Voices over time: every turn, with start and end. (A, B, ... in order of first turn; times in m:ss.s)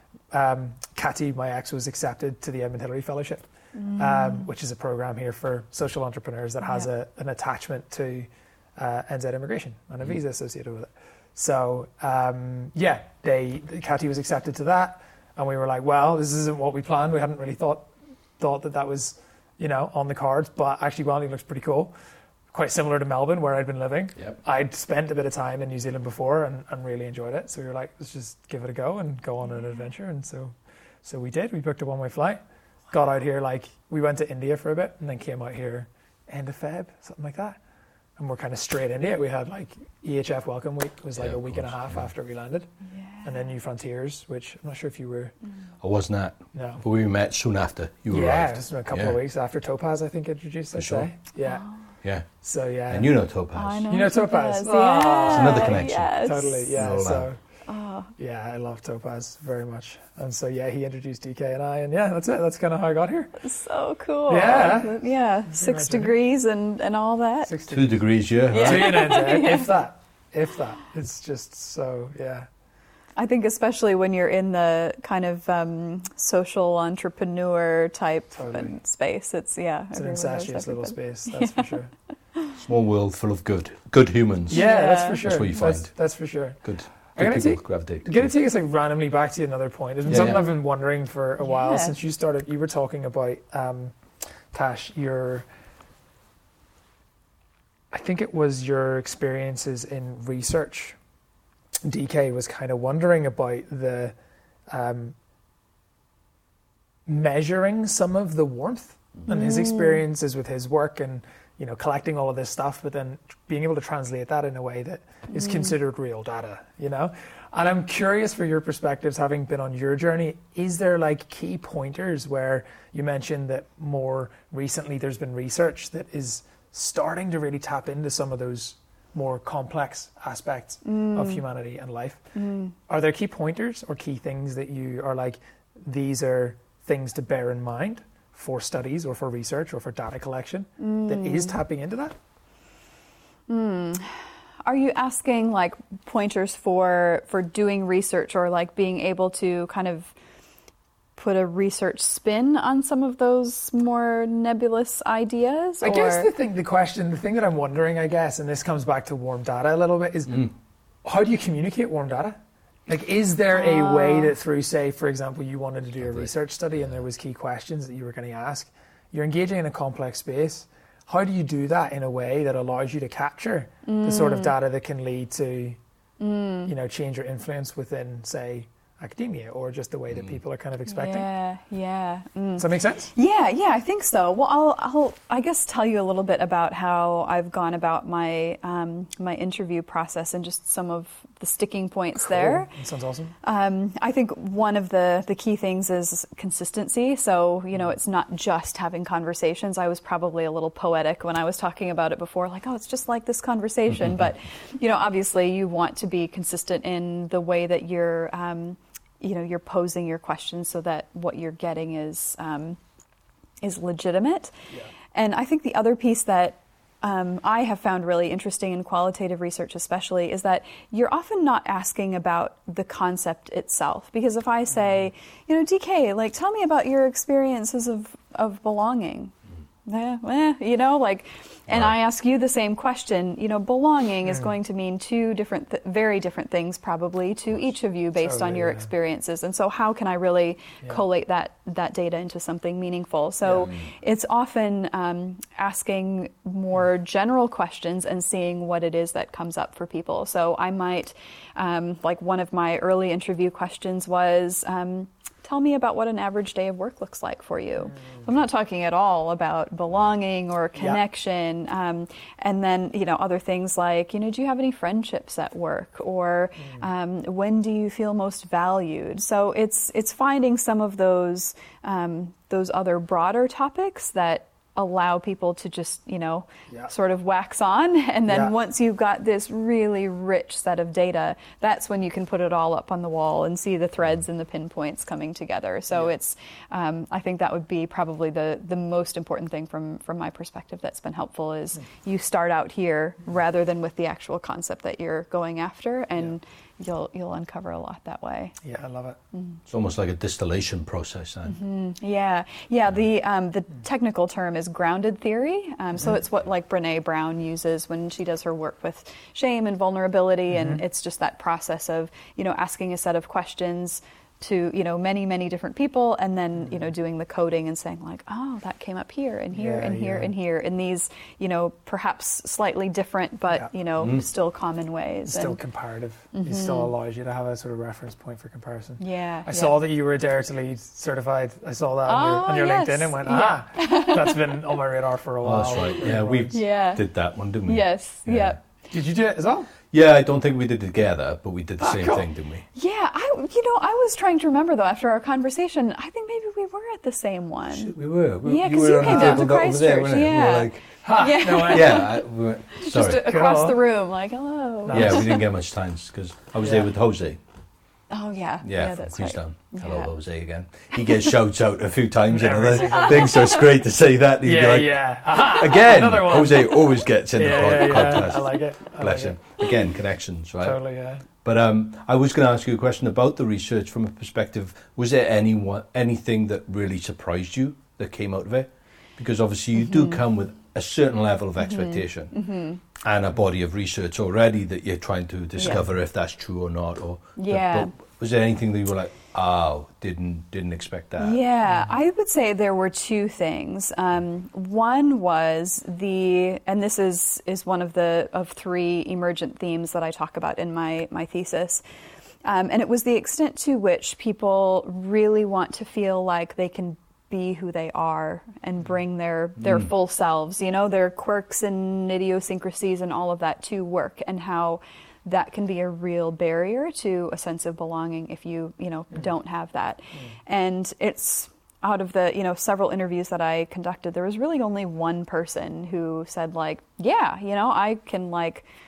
0:00.3-0:03.4 A
0:03.8-0:04.5 B
0:04.0-0:21.9 A
0:06.6-0:06.9 B
0:22.5-0:32.4 A
0:32.9-0:37.6 A
0:38.2-0:42.7 A
0:41.2-0:42.1 C
0:42.9-0:43.3 B
0:43.2-0:45.4 A
0:45.8-0:49.2 C
0:46.5-0:46.8 A
0:48.1-0:51.6 A
0:50.7-0:51.1 C
0:51.4-0:51.8 B
0:52.4-0:53.1 A
0:52.9-0:53.9 C
0:53.5-0:56.8 B
0:53.9-0:57.4 A
0:55.3-0:57.3 C
0:57.7-0:58.1 B
0:58.2-1:03.3 A
1:03.4-1:07.5 B
1:04.3-1:06.1 A
1:07.4-1:08.0 A
1:07.7-1:09.0 C
1:08.5-1:09.7 B
1:08.5-1:12.5 A
1:13.2-1:21.8 B
1:18.3-1:18.7 A
1:19.9-1:21.9 A
1:22.6-1:24.6 C
1:24.5-1:34.0 A
1:24.5-1:25.2 B
1:25.2-1:25.9 C
1:26.6-1:28.3 C
1:30.1-1:30.4 C
1:31.4-1:31.9 B
1:34.5-1:35.5 A
1:37.9-1:41.0 A
1:41.8-1:44.1 A
1:44.7-1:45.1 A
1:47.0-2:12.2 A
1:49.3-1:50.0 B
1:55.3-1:55.7 B
2:10.8-2:11.4 B
2:12.3-2:12.7 B
2:12.9-2:22.1 A
2:20.8-2:21.6 B
2:23.5-2:30.1 B
2:31.2-2:36.3 B
2:35.8-2:40.5 A
2:41.0-2:55.8 A
2:43.5-2:44.3 B
2:46.0-2:47.0 C
2:53.8-2:54.5 B
2:56.2-2:56.7 B
2:56.6-3:01.3 A
3:00.1-3:00.4 C
3:00.8-3:12.7 B
3:02.6-3:03.1 A
3:12.2-3:13.3 A
3:13.4-3:32.8 B
3:23.9-3:24.2 C
3:33.6-3:34.5 B
3:35.1-3:49.3 B
3:49.8-4:58.6 B
3:51.7-3:51.9 C
3:54.2-3:54.5 A
3:58.2-3:58.9 A
4:03.4-4:03.7 A
4:17.9-4:18.2 A
4:38.3-4:38.5 A
4:58.6-4:59.2 A
4:59.3-4:59.6 B
4:59.7-5:01.6 C
5:01.4-5:25.6 B
5:10.5-5:10.8 A
5:19.5-5:20.3 A
5:24.0-5:24.2 C
5:25.3-5:36.5 A
5:26.3-5:26.9 B
5:29.0-5:29.8 B
5:32.0-5:34.4 B
5:35.4-5:38.6 C
5:36.5-5:37.0 B
5:37.6-5:38.6 B
5:38.9-5:39.7 A
5:39.9-5:42.6 C
5:41.8-5:42.2 A
5:42.7-5:55.4 B
5:47.7-5:50.8 C
5:49.0-5:49.5 A
5:51.0-5:52.0 A
5:51.7-5:53.3 C
5:53.2-5:53.8 A
5:54.8-5:55.3 A
5:54.9-5:57.4 C
5:56.6-5:56.9 A
5:58.1-6:00.1 B
5:58.6-6:10.8 C
6:02.3-6:03.4 A
6:02.9-6:03.7 B
6:04.4-6:09.5 A
6:10.6-6:11.2 A
6:11.4-6:22.3 C
6:19.7-6:20.2 B
6:21.6-6:22.8 B
6:23.0-6:31.4 C
6:25.6-6:25.8 B
6:27.4-6:27.9 B
6:31.2-6:41.8 B
6:42.4-7:08.7 B
6:49.6-6:49.9 C